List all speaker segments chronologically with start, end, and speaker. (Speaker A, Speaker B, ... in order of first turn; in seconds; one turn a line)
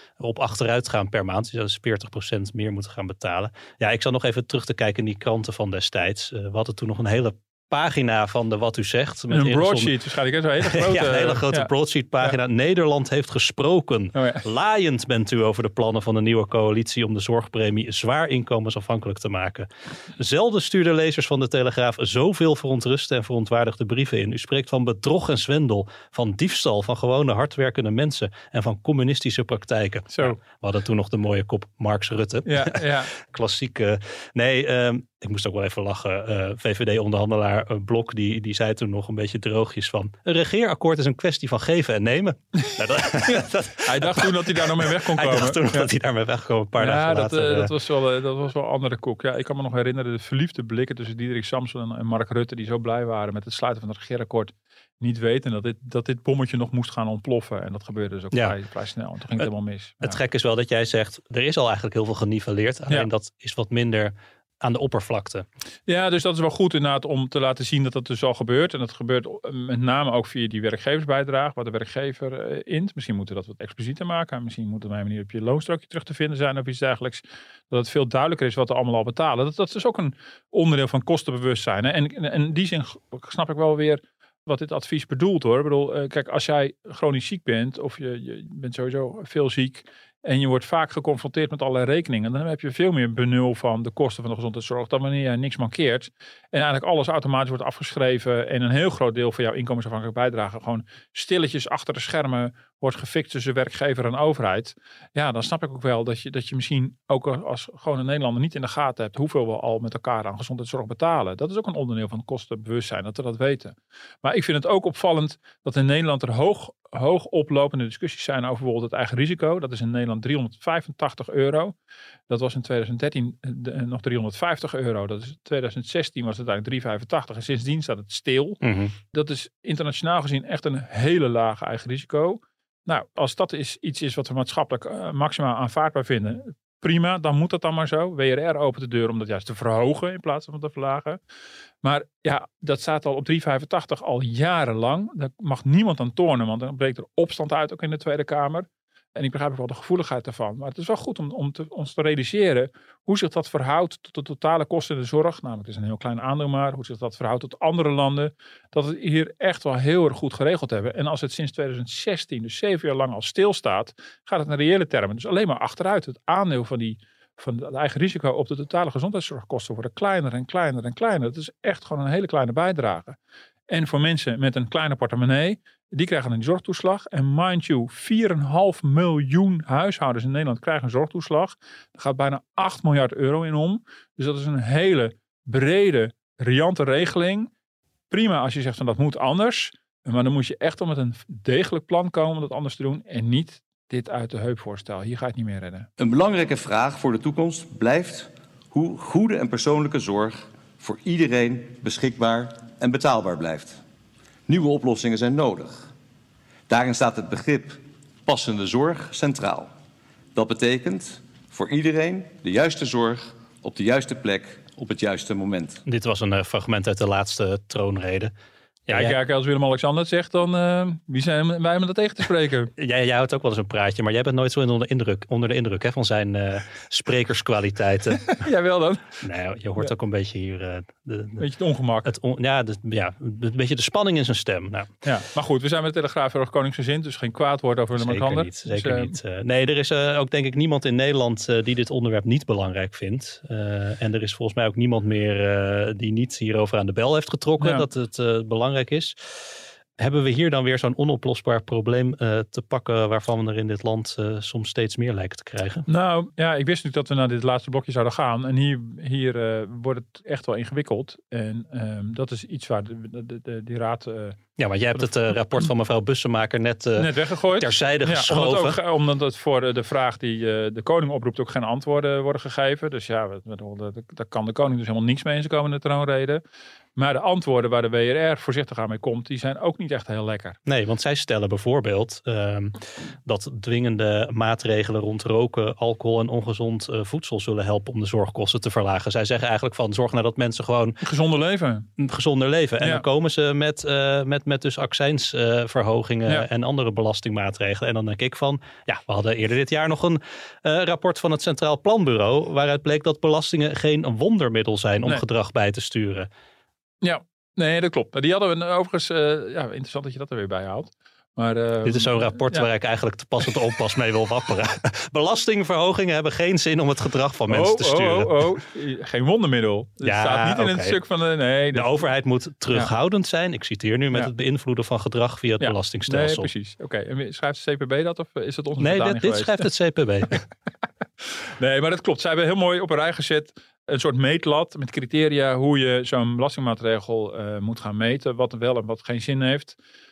Speaker A: 0.2-9.9
Speaker B: 9.3-12.4
Speaker A: 10.6-47.7
Speaker B: 14.2-14.4
Speaker B: 32.5-33.1
Speaker B: 42.6-45.9
Speaker B: 46.8-60.2
Speaker A: 60.0-65.5
Speaker B: 65.9-121.8
Speaker B: 122.3-141.2
Speaker A: 128.6-128.9
Speaker B: 141.8-173.2
Speaker B: 173.7-187.5
Speaker B: 188.1-195.9
Speaker C: 196.0-203.8
Speaker C: 204.5-205.9
Speaker C: 206.7-209.7
Speaker C: 210.3-215.8
Speaker A: 215.9-218.3
Speaker A: 218.9-219.2
Speaker B: 218.9-222.7
Speaker A: 222.8-228.3
Speaker B: 228.2-229.2
Speaker A: 229.2-231.4
Speaker B: 231.4-232.1
Speaker A: 232.1-234.9
Speaker B: 235.0-239.2
Speaker A: 238.0-249.5
Speaker B: 247.6-247.9
Speaker A: 250.0-255.9
Speaker B: 255.9-264.4
Speaker A: 264.6-268.8
Speaker B: 267.0-276.4
Speaker B: 277.0-280.6
Speaker A: 280.7-291.0
Speaker B: 291.0-291.9
Speaker A: 292.0-306.3
Speaker B: 307.0-312.7
Speaker A: 311.8-318.5
Speaker B: 317.5-322.1
Speaker A: 320.0-321.0
Speaker A: 321.7-326.5
Speaker B: 325.6-329.7
Speaker A: 328.8-330.4
Speaker B: 331.2-339.8